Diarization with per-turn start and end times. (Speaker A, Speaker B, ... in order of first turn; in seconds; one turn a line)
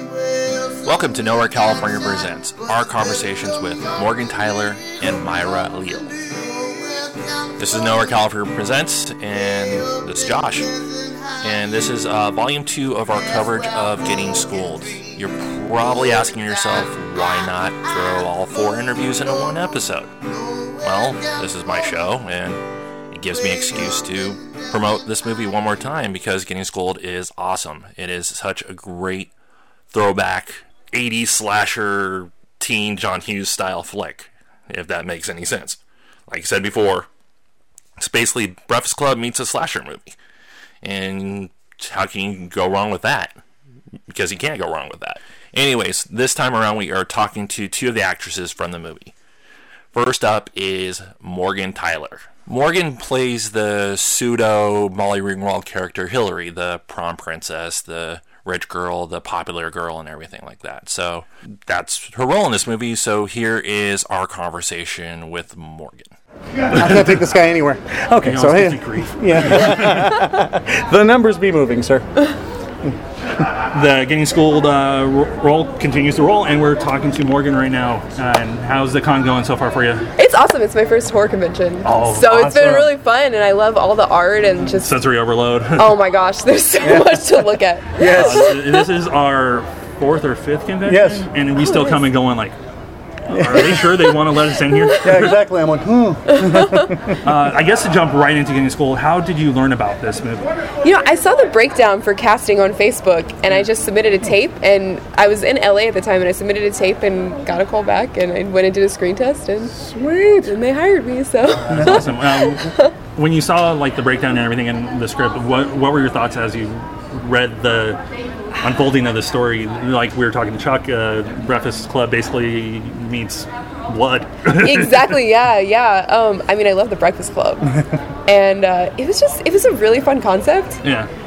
Speaker A: 0.8-6.5
Speaker A: 7.6-10.7
Speaker A: 11.4-20.1
Speaker A: 20.8-29.3
Speaker A: 29.9-37.1
Speaker A: 38.0-40.2
Speaker A: 40.8-43.4
Speaker A: 44.1-49.1
Speaker A: 49.9-66.1
Speaker B: 66.7-67.2
Speaker C: 66.7-72.0
Speaker B: 68.2-70.2
Speaker B: 73.7-80.1
Speaker D: 80.2-85.0
Speaker B: 81.8-82.4
Speaker C: 82.3-82.9
Speaker B: 84.8-86.0
Speaker D: 85.8-88.6
Speaker C: 86.8-87.4
Speaker C: 88.0-88.6
Speaker B: 88.1-92.6
Speaker C: 90.8-91.3
Speaker B: 93.3-95.4
Speaker C: 93.3-93.9
Speaker D: 95.0-95.3
Speaker C: 95.0-97.0
Speaker D: 96.3-96.9
Speaker B: 97.2-100.5
Speaker D: 100.8-109.7
Speaker C: 109.8-110.5
Speaker D: 110.4-112.9
Speaker B: 111.7-118.0
Speaker B: 118.6-125.1
Speaker D: 124.6-127.7
Speaker D: 128.3-130.8
Speaker B: 130.8-131.1